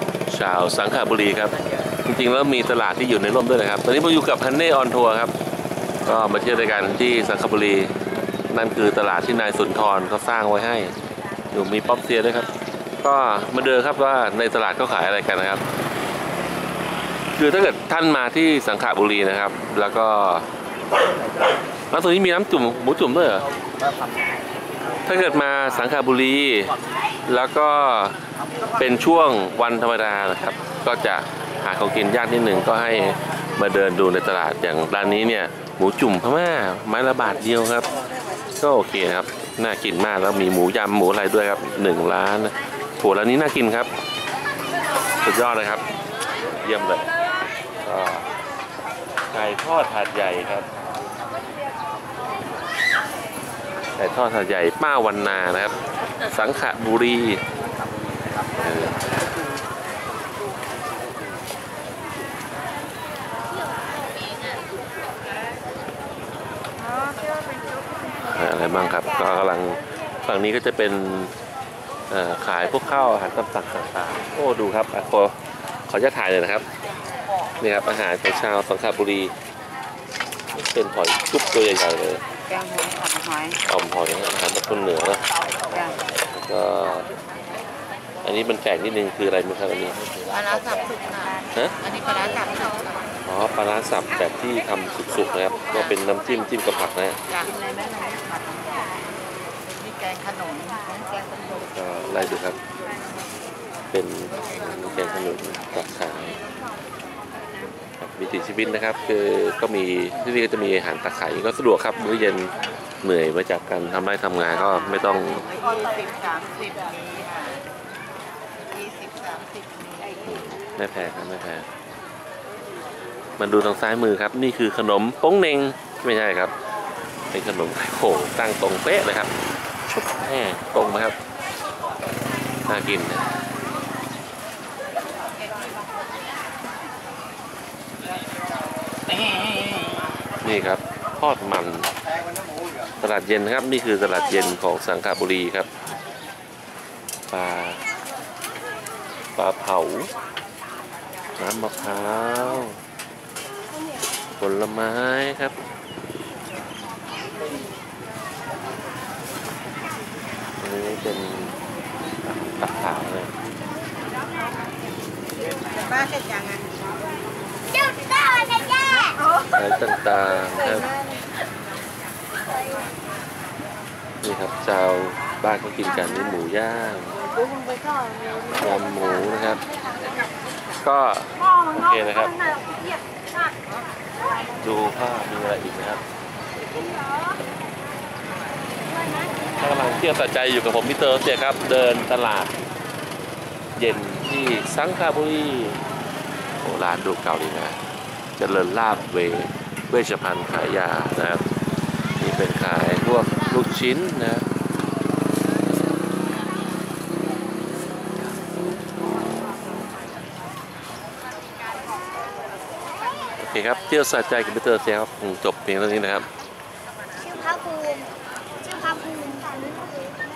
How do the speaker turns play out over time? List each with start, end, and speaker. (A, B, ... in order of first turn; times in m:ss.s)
0:00.3-0:05.3 A
0:06.0-0:07.9 A
0:08.5-0:10.9 A
0:11.5-0:12.5 A
0:13.0-0:15.6 A
0:17.4-0:20.5 A
0:21.9-0:23.4 A
0:25.0-0:26.7 A
0:27.2-0:28.1 A
0:28.8-0:37.9 A
0:38.6-0:43.9 A
0:45.2-0:45.8 A
0:46.4-0:47.1 A
0:47.8-0:48.2 A
0:49.3-0:50.7 A
0:54.0-0:55.7 A
0:56.3-0:57.4 A
0:58.5-0:59.0 A
1:08.2-1:11.3 A
1:12.1-1:15.3 A
1:15.9-1:16.6 A
1:17.6-1:19.3 A
1:20.5-1:22.2 A
1:22.5-1:23.6 B
1:23.6-1:27.1 A
1:28.2-1:30.4 A
1:30.4-1:33.0 B
1:31.5-1:31.8 A
1:33.2-1:37.2 A
1:37.3-1:38.8 B
1:39.7-1:41.5 B
1:41.5-1:42.6 A
1:43.9-1:46.4 A
1:48.0-1:55.5 A
1:55.5-1:57.6 B
1:58.7-2:00.2 B
2:00.2-2:01.6 A
2:03.4-2:06.5 A
2:07.3-2:09.3 A
2:09.9-2:11.2 A
2:12.6-2:13.2 A
2:20.4-2:21.9 A
2:23.0-2:25.7 A
2:27.3-2:27.8 A
2:29.4-2:30.1 A
2:31.4-2:32.8 A
2:34.4-2:35.6 A
2:40.6-2:41.6 A
2:42.2-2:43.3 A
2:45.8-2:46.7 B
2:47.7-2:49.2 C
2:49.5-2:50.9 A
2:54.2-2:57.2 A
2:58.5-2:59.6 A
3:00.8-3:02.4 A
3:04.6-3:06.0 A
3:09.6-3:12.5 A
3:13.8-3:15.8 A
3:16.6-3:17.8 A
3:18.4-3:21.4 A
3:22.2-3:24.4 A
3:33.4-3:36.3 A
3:37.2-3:40.2 C